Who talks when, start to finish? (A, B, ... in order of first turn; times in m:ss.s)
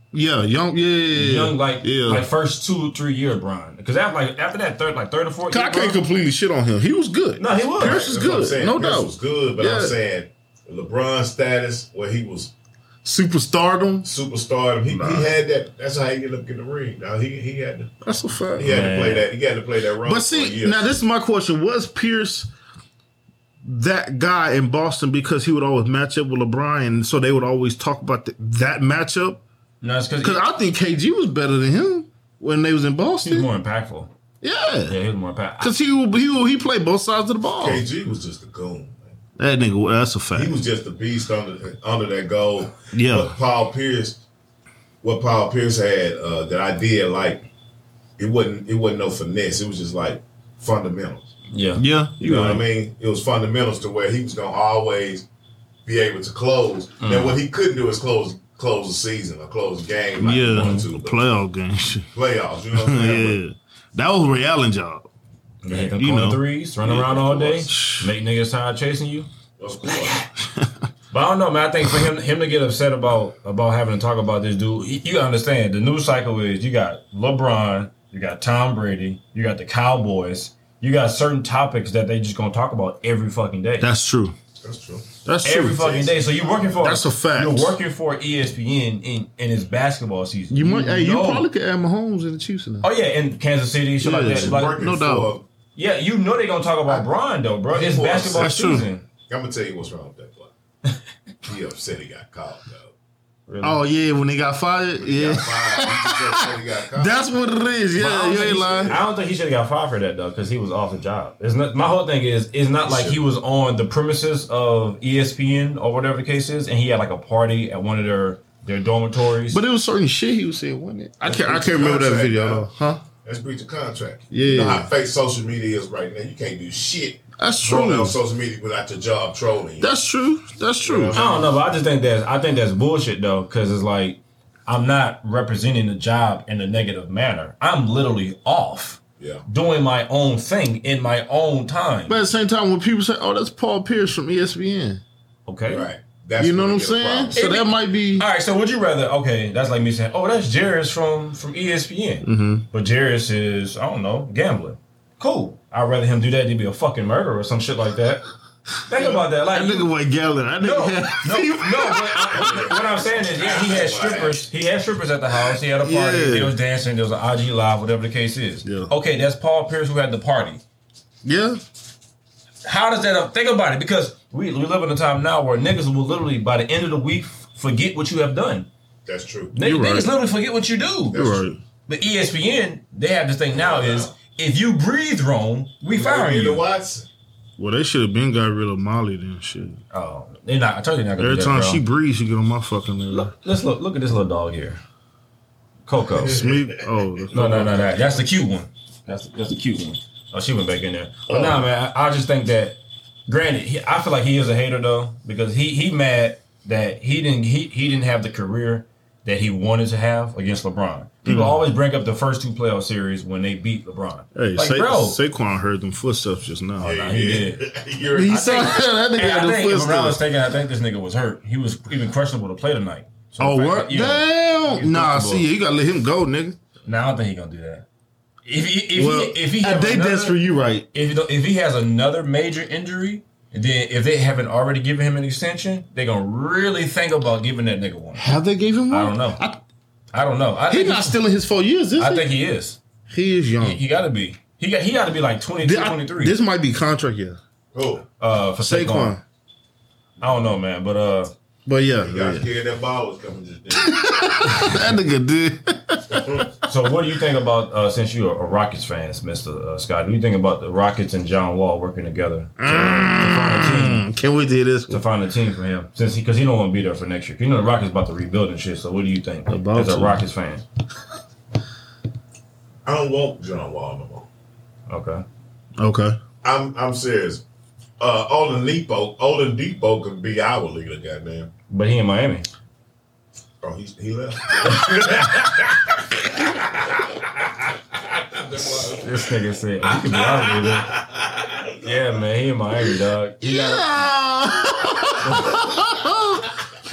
0:00.1-0:02.2 A
0:01.1-0:06.0 B
0:05.5-0:10.0 A
0:07.4-0:08.0 B
0:07.8-0:12.5 C
0:13.0-0:14.1 A
0:14.0-0:17.9 C
0:14.9-0:15.3 A
0:18.0-0:18.7 A
0:18.6-0:21.0 C
0:18.6-0:19.3 B
0:20.0-0:22.5 A
0:23.6-0:29.4 A
0:29.8-0:30.4 B
0:30.2-0:33.5 A
0:33.2-0:34.1 B
0:34.4-0:35.0 A
0:34.9-0:35.7 B
0:35.6-0:37.8 A
0:37.6-0:39.1 C
0:39.4-0:40.6 A
0:40.3-0:44.2 C
0:42.9-0:43.3 A
0:45.0-0:47.4 C
0:48.2-0:51.3 C
0:51.5-0:51.8 B
0:51.7-0:52.6 A
0:52.2-0:55.2 C
0:55.8-1:01.2 C
0:57.0-0:57.4 B
1:00.2-1:02.1 A
1:00.4-1:00.9 B
1:02.1-1:03.4 C
1:02.7-1:05.1 A
1:05.6-1:09.3 B
1:05.8-1:08.1 A
1:09.6-1:10.2 C
1:10.4-1:10.8 A
1:11.1-1:23.9 B
1:23.8-1:24.3 A
1:24.6-1:25.1 C
1:25.2-1:25.8 A
1:25.4-1:31.4 B
1:25.8-1:26.8 C
1:26.8-1:27.8 A
1:30.5-1:32.9 A
1:32.8-1:34.8 B
1:34.0-1:35.3 A
1:34.3-1:35.4 C
1:35.7-1:39.0 B
1:37.7-1:38.6 C
1:38.3-1:38.9 A
1:39.3-1:40.5 C
1:41.4-1:42.9 C
1:43.5-1:43.8 B
1:43.6-1:49.0 A
1:45.0-1:47.1 C
1:48.0-1:59.6 B
1:48.5-1:49.0 C
1:52.8-1:53.2 C
1:59.5-2:03.0 A
2:01.2-2:02.6 C
2:03.2-2:09.9 C
2:04.3-2:04.9 A
2:07.4-2:08.2 A
2:09.8-2:11.2 A
2:10.8-2:11.6 C
2:11.1-2:22.2 B
2:22.1-2:25.0 A
2:25.4-2:25.9 B
2:25.7-2:27.4 C
2:26.4-2:28.2 A
2:27.4-2:38.2 B
2:32.2-2:32.6 A
2:38.9-2:39.9 B
2:39.0-2:42.6 A
2:40.6-2:50.6 B
2:42.3-2:44.4 C
2:45.8-2:46.5 A
2:48.6-2:48.9 A
2:51.2-2:51.6 A
2:52.6-2:58.7 B
2:59.0-2:59.6 C
2:59.5-3:01.3 B
2:59.6-3:00.1 A
3:01.1-3:01.4 C
3:01.1-3:01.6 A
3:01.9-3:06.6 B
3:03.5-3:04.1 C
3:05.9-3:07.1 C
3:07.6-3:09.8 A
3:09.9-3:11.8 B
3:11.2-3:13.3 A
3:13.1-3:14.8 B
3:15.8-3:16.5 B
3:16.2-3:16.7 C
3:16.2-3:17.9 A
3:17.3-3:35.2 B
3:21.3-3:21.6 A
3:31.2-3:31.6 A
3:34.3-3:36.9 A
3:36.8-3:37.6 B
3:36.8-3:38.7 C
3:38.1-3:40.2 A
3:38.3-3:45.5 B
3:43.4-3:46.6 A
3:46.8-3:47.8 B
3:48.4-3:50.4 B
3:48.9-3:50.9 A
3:50.9-3:58.3 B
3:58.2-3:59.6 A
3:58.9-3:59.4 B
4:00.1-4:01.2 B
4:00.7-4:02.2 A
4:02.0-4:02.8 B
4:03.1-4:03.8 A
4:03.6-4:06.4 B
4:05.6-4:07.4 A
4:07.7-4:08.0 C
4:08.2-4:09.2 B
4:08.6-4:09.2 A
4:10.2-4:11.3 B
4:11.6-4:12.5 A
4:12.0-4:14.6 C
4:13.7-4:16.5 A
4:14.5-4:14.9 B
4:16.1-4:16.5 C
4:16.6-4:24.0 B
4:22.6-4:25.0 A
4:24.9-4:30.6 B
4:29.5-4:30.2 A
4:32.8-4:34.3 C
4:34.9-4:35.2 B
4:35.8-4:36.2 A
4:36.4-4:37.4 C
4:38.0-4:41.5 C
4:41.7-4:42.4 B
4:43.6-4:52.1 C
4:44.6-4:45.6 B
4:49.0-4:50.9 B
4:51.8-4:54.0 B
4:53.4-4:56.5 A
4:55.3-4:55.6 B